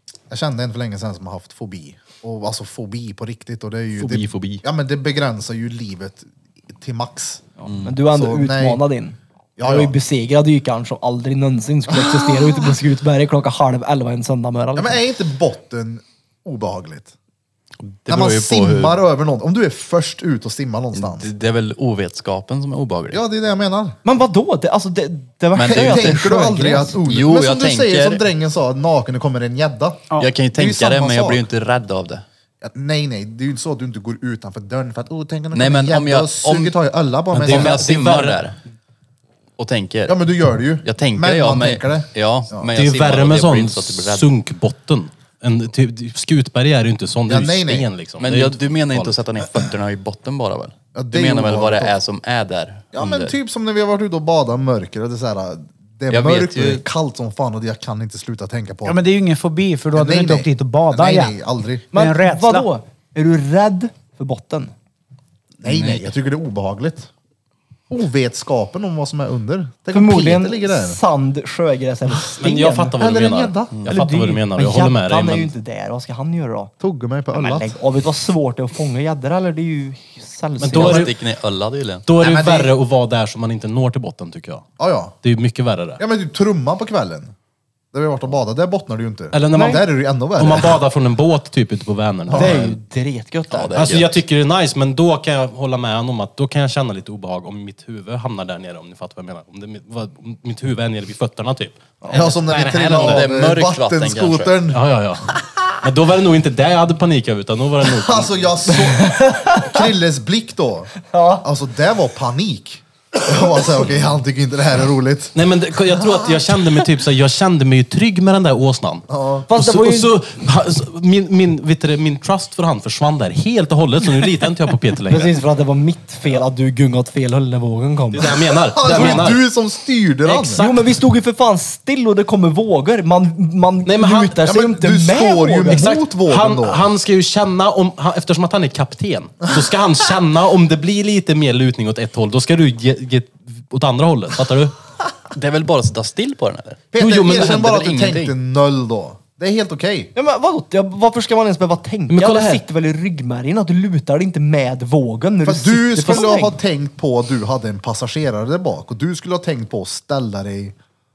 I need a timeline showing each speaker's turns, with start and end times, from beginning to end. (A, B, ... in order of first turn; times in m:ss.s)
0:00.3-0:07.4 A
0:04.1-0:04.6 B
0:07.6-0:15.0 C
0:07.7-0:07.9 B
0:08.0-0:08.8 A
0:09.6-0:10.0 A
0:11.9-0:12.7 A
0:14.8-0:17.1 A
0:17.8-0:19.0 B
0:18.1-0:21.3 A
0:21.0-0:23.2 B
0:23.1-0:24.0 A
0:24.0-0:27.0 C
0:25.6-0:26.2 B
0:25.6-0:31.4 A
0:27.0-0:28.2 B
0:30.1-0:32.2 B
0:32.6-0:37.9 A
0:35.5-0:36.7 B
0:37.3-0:38.4 D
0:37.4-0:38.6 B
0:39.6-0:40.2 B
0:40.1-0:42.7 A
0:40.8-0:44.3 B
0:42.7-0:49.2 D
0:47.3-0:47.9 A
0:48.2-0:53.3 B
0:51.0-0:52.0 A
0:52.9-0:59.0 A
0:56.1-0:56.8 B
0:58.9-1:01.4 E
1:00.0-1:01.9 A
1:01.9-1:04.7 C
1:01.9-1:02.7 E
1:05.6-1:07.1 A
1:05.7-1:06.0 B
1:07.9-1:11.0 A
1:09.9-1:13.0 C
1:12.4-1:15.5 D
1:13.0-1:13.9 A
1:13.9-1:16.7 C
1:16.8-1:17.7 A
1:17.3-1:21.1 C
1:20.6-1:21.1 D
1:20.7-1:22.1 B
1:22.1-1:24.6 D
1:22.2-1:22.7 A
1:24.8-1:25.2 A
1:25.2-1:26.0 D
1:26.0-1:27.3 A
1:27.9-1:30.8 A
1:29.3-1:32.8 D
1:29.5-1:29.8 C
1:32.3-1:32.6 A
1:32.3-1:33.9 C
1:33.5-1:34.2 B
1:33.7-1:43.3 D
1:42.0-1:42.4 C
1:42.1-1:44.8 A
1:42.9-1:44.6 B
1:44.7-1:48.4 D
1:47.9-1:55.4 A
1:48.7-1:49.9 C
1:51.1-1:51.4 C
1:55.4-2:05.3 D
1:56.0-1:56.3 A
1:59.1-1:59.5 A
1:59.5-2:00.1 C
2:05.1-2:09.3 C
2:08.1-2:09.4 D
2:08.7-2:10.6 A
2:10.2-2:10.9 D
2:10.6-2:15.9 C
2:13.8-2:14.4 D
2:14.4-2:16.9 A
2:15.7-2:24.7 D
2:25.3-2:28.3 B
2:26.9-2:30.1 A
2:27.0-2:27.6 D
2:30.2-2:36.6 C
2:32.1-2:32.6 D
2:35.4-2:40.7 A